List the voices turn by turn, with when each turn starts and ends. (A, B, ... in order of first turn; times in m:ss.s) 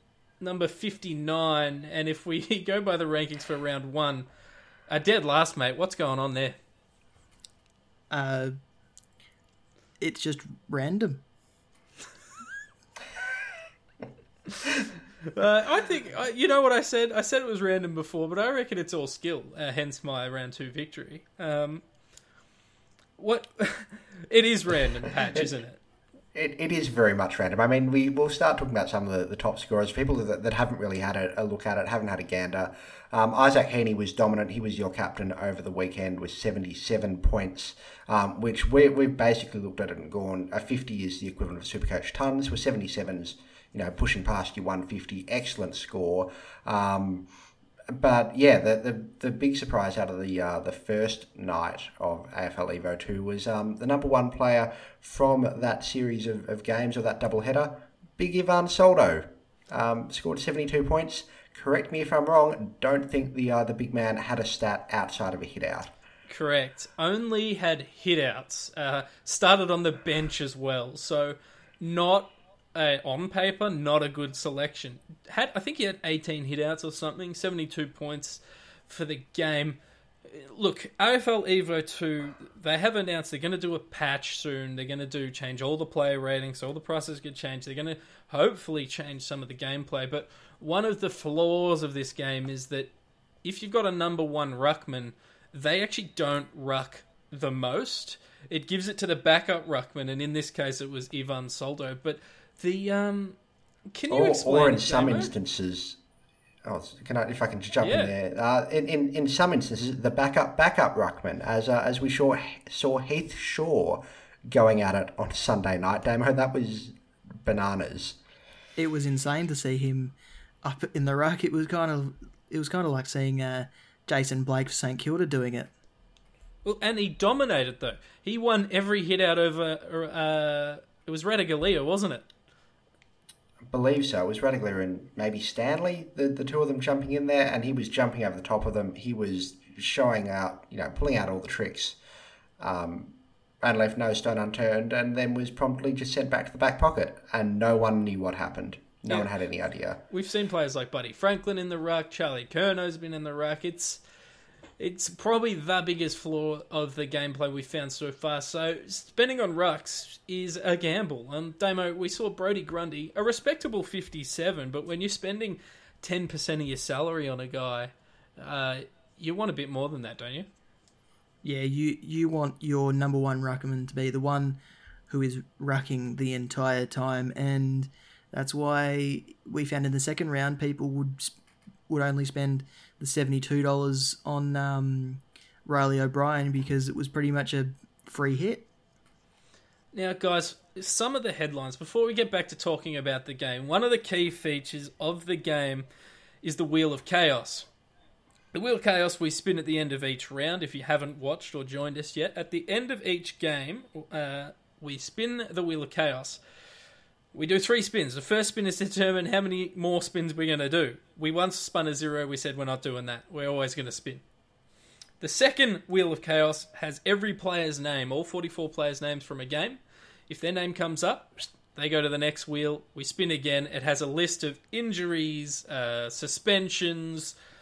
0:00.4-0:04.2 A
0:04.9-0:06.6 A
0:08.1-0:08.5 B
0:10.0-0:11.2 B
0:15.2-0:21.8 A
0:23.2-0:25.8 A
0:26.3-0:47.3 C
0:47.9-1:05.9 C
1:06.3-1:32.9 A
1:33.4-1:43.4 A
1:43.9-1:45.3 A
1:44.1-1:46.0 C
1:46.6-1:58.2 C
1:47.8-1:48.1 A
1:58.8-2:05.7 B
2:06.6-2:12.2 A
2:13.7-2:22.0 C
2:22.6-2:30.0 C
2:30.1-2:34.0 A
2:34.8-2:50.5 A
2:51.4-3:01.4 B
3:01.9-3:08.7 B
3:09.9-3:15.9 A
3:16.4-3:17.7 A
3:18.5-3:26.4 A
3:27.3-3:34.2 A
3:35.2-3:47.4 A